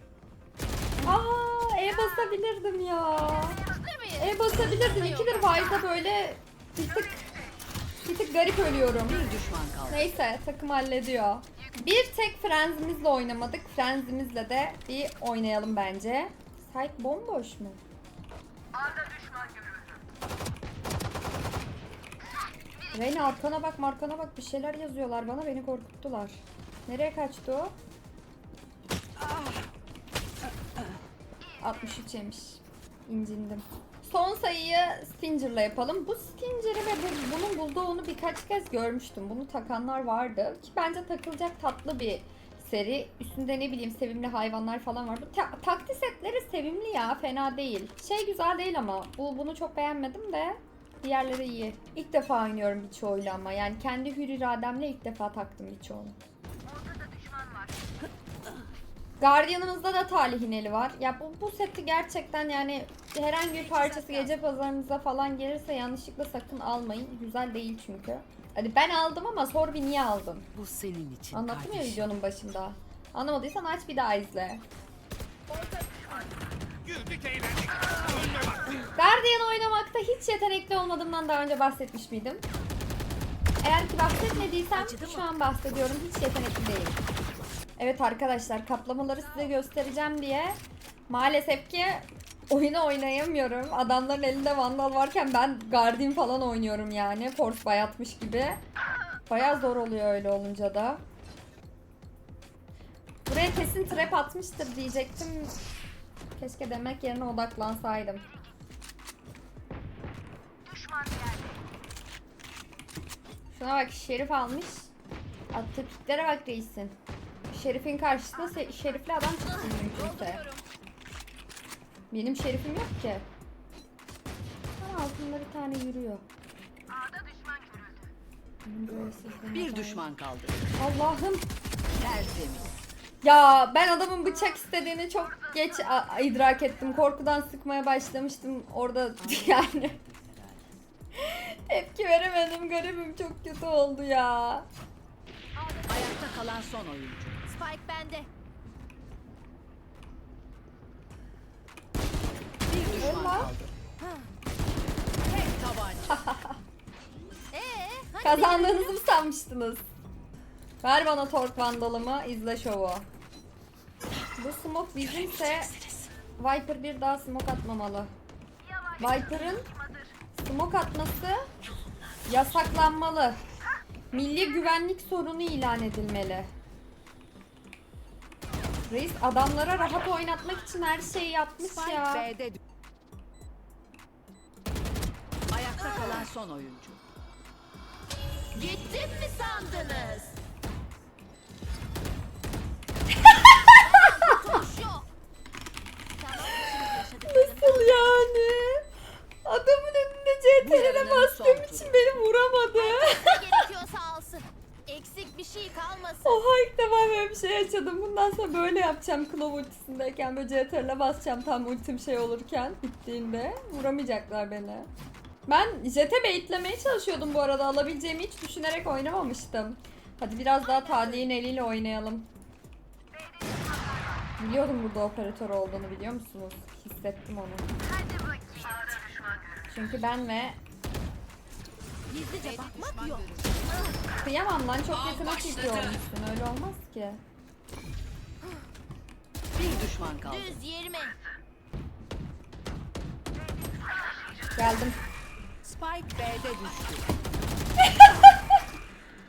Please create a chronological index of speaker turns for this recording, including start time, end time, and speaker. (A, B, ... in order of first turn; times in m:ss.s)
0:01.0-0:03.6 A
0:03.7-0:05.7 B
0:04.2-0:07.4 A
0:08.0-0:09.3 A
0:08.9-0:10.1 C
0:09.9-0:17.8 A
0:22.9-0:27.7 A
0:31.6-0:56.2 A
0:56.7-0:57.7 B
0:59.2-1:10.5 A
1:03.6-1:04.3 B
1:10.5-1:12.1 C
1:11.3-1:14.6 A
1:19.0-1:22.4 A
1:23.6-1:27.0 A
1:24.7-1:25.2 C
1:27.8-1:30.6 A
1:31.1-1:38.6 A
1:39.3-1:41.0 A
1:43.3-1:45.6 A
1:46.4-1:48.2 A
1:50.7-1:51.5 B
1:53.5-1:54.9 A
1:55.5-1:57.0 A
1:57.5-2:00.4 A
1:59.8-2:00.6 B
2:02.1-2:03.3 A
2:04.8-2:06.2 A
2:08.6-2:10.0 A
2:09.5-2:10.6 C
2:10.8-2:11.5 A
2:12.0-2:12.7 C
2:13.2-2:20.0 A
2:19.2-2:20.6 C
2:21.1-2:24.6 A
2:25.6-2:26.0 B
2:25.8-2:27.5 C
2:27.5-2:28.3 B
2:32.7-2:33.7 C
2:32.9-2:33.6 A
2:35.3-2:36.3 C
2:36.1-2:36.6 A
2:37.5-2:39.0 B
2:38.2-2:39.8 A
2:40.8-2:43.0 A
2:44.4-2:45.8 A
2:46.4-2:48.1 A
2:49.0-2:49.7 A
2:50.3-2:51.5 A
2:52.3-2:53.4 A
2:54.1-2:56.5 A
2:58.9-3:02.3 A
3:01.6-3:02.6 C
3:05.5-3:07.0 C
3:08.5-3:10.4 B
3:13.2-3:14.6 A
3:13.7-3:15.0 B
3:16.1-3:18.2 B
3:16.5-3:18.8 A
3:19.4-3:23.7 A
3:20.6-3:22.1 C
3:22.7-3:26.4 B
3:26.2-3:34.9 A
3:35.5-3:42.3 A
3:44.4-3:47.7 A
3:48.3-3:49.2 B
3:49.6-3:50.6 A
3:52.1-3:53.2 B
3:52.3-3:53.6 C
3:54.2-3:57.2 A
3:59.5-4:00.6 C
4:00.2-4:01.2 B
4:04.6-4:05.0 A
4:05.6-4:07.1 C
4:07.8-4:08.6 A